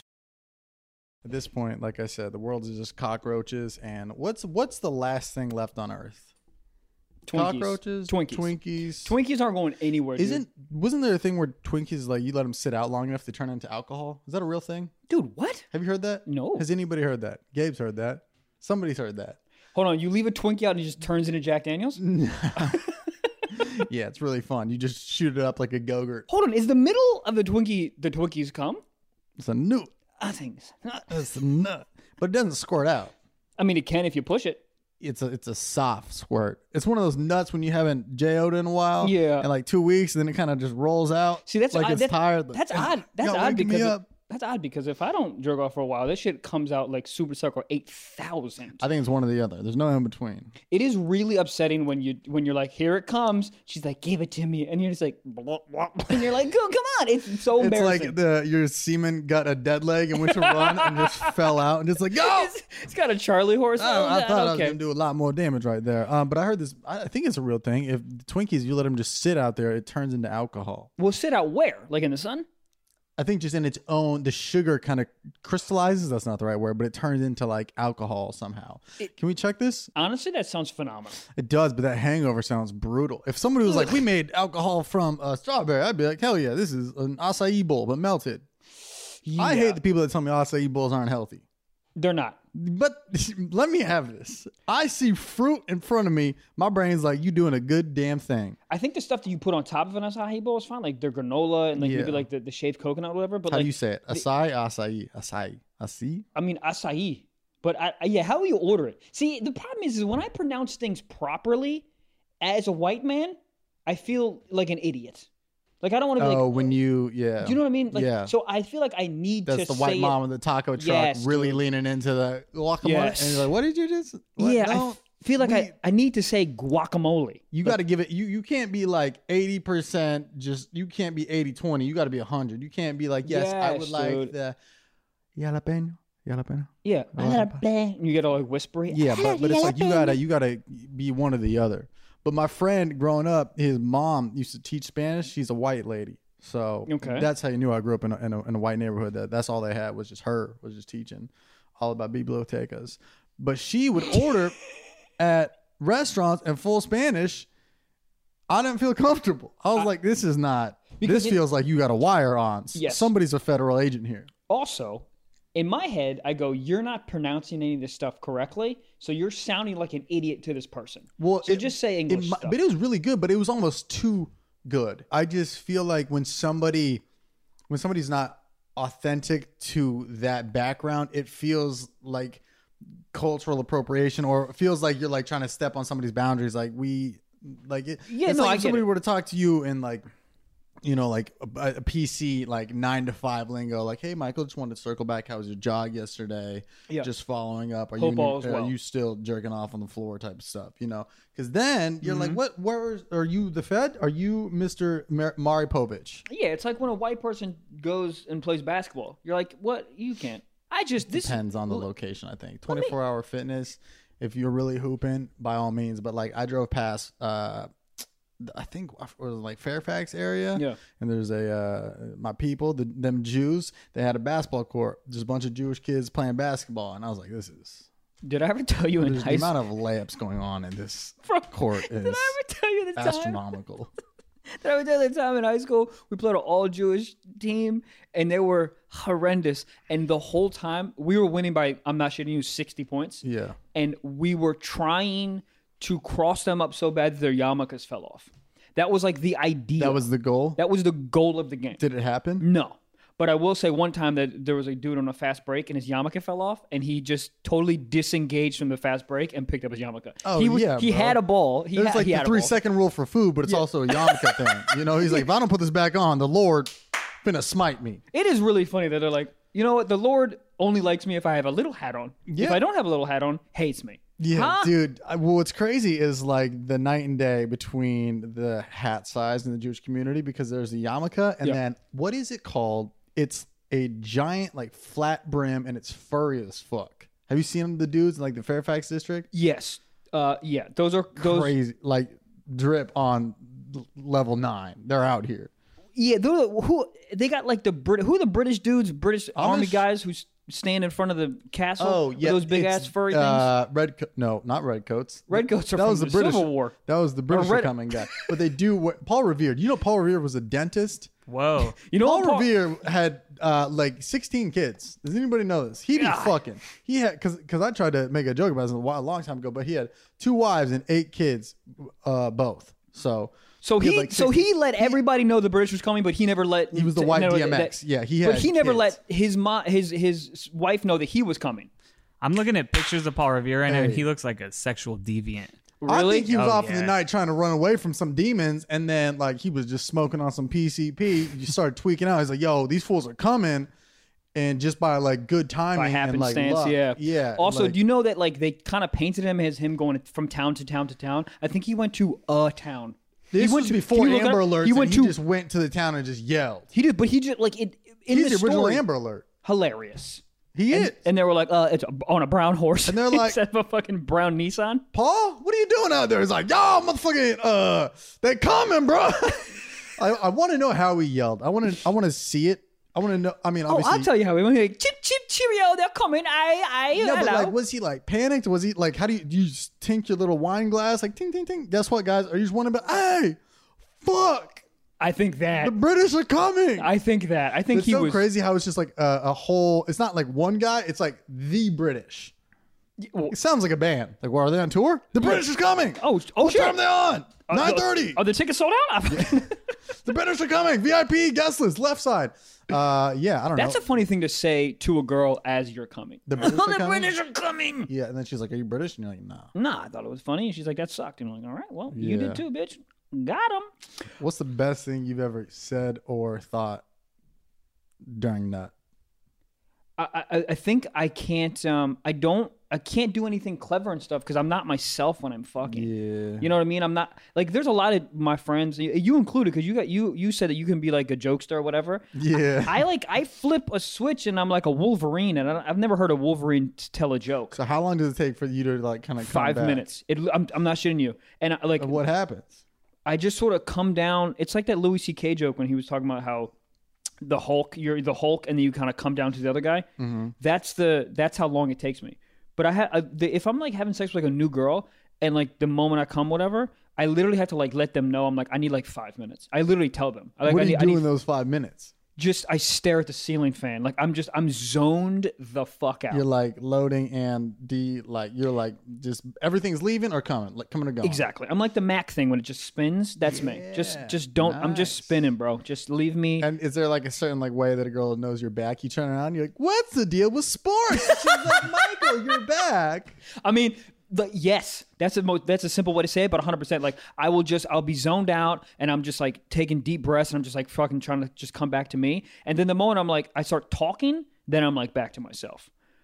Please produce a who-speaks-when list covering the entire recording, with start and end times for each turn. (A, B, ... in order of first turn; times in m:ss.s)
0:01.2-0:06.3 A
0:07.3-0:10.4 B
0:07.3-0:09.1 A
0:10.2-0:14.9 A
0:15.1-0:15.7 B
0:15.7-0:19.4 A
0:16.3-0:16.7 B
0:19.8-0:22.0 B
0:22.0-0:22.9 A
0:22.6-0:22.9 B
0:23.5-0:26.3 A
0:26.3-0:28.8 B
0:29.4-0:29.9 A
0:30.2-0:31.1 B
0:31.1-0:33.1 A
0:33.6-0:34.6 B
0:35.0-0:44.0 A
0:39.0-0:39.5 B
0:41.5-0:48.8 B
0:48.8-0:50.5 A
0:50.7-0:58.2 B
0:57.6-1:02.5 A
1:00.2-1:01.4 B
1:02.1-1:04.8 B
1:03.8-1:10.9 A
1:11.0-1:12.5 B
1:13.2-1:19.9 A
1:20.0-1:21.2 B
1:21.4-1:28.5 A
1:23.7-1:24.0 B
1:29.2-1:29.8 B
1:29.4-1:31.4 A
1:32.0-1:32.4 B
1:32.5-1:38.6 A
1:38.7-1:44.2 B
1:41.8-1:42.3 A
1:43.5-1:46.2 A
1:46.4-1:51.8 B
1:52.4-1:55.3 B
1:55.8-1:56.7 B
1:56.2-1:58.3 A
1:57.4-2:00.2 B
1:59.5-2:05.7 A
2:00.8-2:01.6 B
2:02.8-2:03.5 B
2:04.4-2:07.8 B
2:07.5-2:14.6 A
2:13.2-2:14.3 B
2:15.4-2:17.6 A
2:16.8-2:20.2 B
2:18.9-2:34.6 A
2:26.9-2:27.3 B
2:35.2-2:37.5 A
2:38.5-2:44.3 A
2:41.0-2:41.4 B
2:42.7-2:43.1 B
2:44.5-2:52.6 B
2:51.2-2:57.0 A
2:57.7-3:02.4 A
3:03.1-3:10.1 A
3:08.1-3:08.8 B
3:10.8-3:26.3 A
3:18.0-3:18.7 B
3:22.0-3:22.4 B
3:26.3-3:31.9 B
3:31.1-3:37.7 A
3:32.7-3:33.0 B
3:38.4-3:47.9 A
3:48.2-3:49.6 B
3:49.0-3:52.4 A
3:51.2-3:53.4 B
3:53.0-3:53.9 A
3:54.5-4:03.2 B
4:03.2-4:03.6 A
4:03.7-4:10.0 B
4:09.8-4:10.6 A
4:10.6-4:11.8 B
4:11.8-4:12.5 A
4:12.4-4:22.6 B
4:20.2-4:21.2 A
4:21.7-4:28.0 A
4:23.4-4:25.2 B
4:28.1-4:34.7 B
4:32.3-4:32.6 A
4:34.2-4:49.3 A
4:49.3-4:51.5 B
4:51.2-4:55.5 A
4:56.0-5:03.5 B
4:59.4-4:59.8 A
5:01.8-5:11.1 A
5:05.3-5:06.8 B
5:07.3-5:08.3 B
5:11.3-5:11.8 C
5:11.7-5:12.5 B
5:12.0-5:25.0 A
5:15.9-5:16.4 B
5:23.6-5:31.7 B
5:26.7-5:28.9 A
5:32.2-5:35.6 C
5:33.7-5:34.0 A
5:35.8-5:36.4 B
5:35.9-5:43.7 A
5:36.3-5:36.9 C
5:44.4-5:47.8 A
5:45.8-5:55.2 B
5:53.3-5:56.7 A
5:56.7-5:58.8 B
5:58.1-5:59.2 A
5:59.4-6:04.8 B
6:00.6-6:01.0 A
6:02.9-6:03.4 A
6:04.9-6:14.1 A
6:13.7-6:17.6 B
6:17.0-6:23.4 A
6:24.0-6:24.6 A
6:25.0-6:25.8 B
6:25.6-6:26.9 A
6:26.8-6:28.2 B
6:27.7-6:32.3 A
6:33.0-6:33.3 B
6:33.3-6:38.2 A
6:35.2-6:35.5 B
6:36.0-6:36.8 B
6:37.5-6:39.6 B
6:39.1-6:39.5 A
6:40.0-6:43.9 A
6:43.6-6:47.9 B
6:46.3-6:47.2 A
6:47.9-6:49.5 A
6:49.6-6:53.7 B
6:51.9-6:52.4 A
6:54.2-6:56.8 A
6:58.0-6:58.7 A
7:00.0-7:05.9 B
7:05.6-7:06.5 A
7:06.4-7:12.1 B
7:12.2-7:12.9 A
7:12.6-7:17.6 B
7:17.5-7:19.8 A
7:19.2-7:22.0 B
7:21.8-7:22.6 A
7:23.0-7:26.5 B
7:27.2-7:29.9 B
7:30.0-7:30.3 A
7:30.4-7:41.0 B
7:40.4-7:41.9 A
7:42.2-7:46.2 B
7:46.1-7:51.3 A
7:51.0-7:56.5 B
7:53.3-7:55.2 A
7:56.4-8:03.2 A
8:00.9-8:02.4 B
8:03.4-8:15.7 B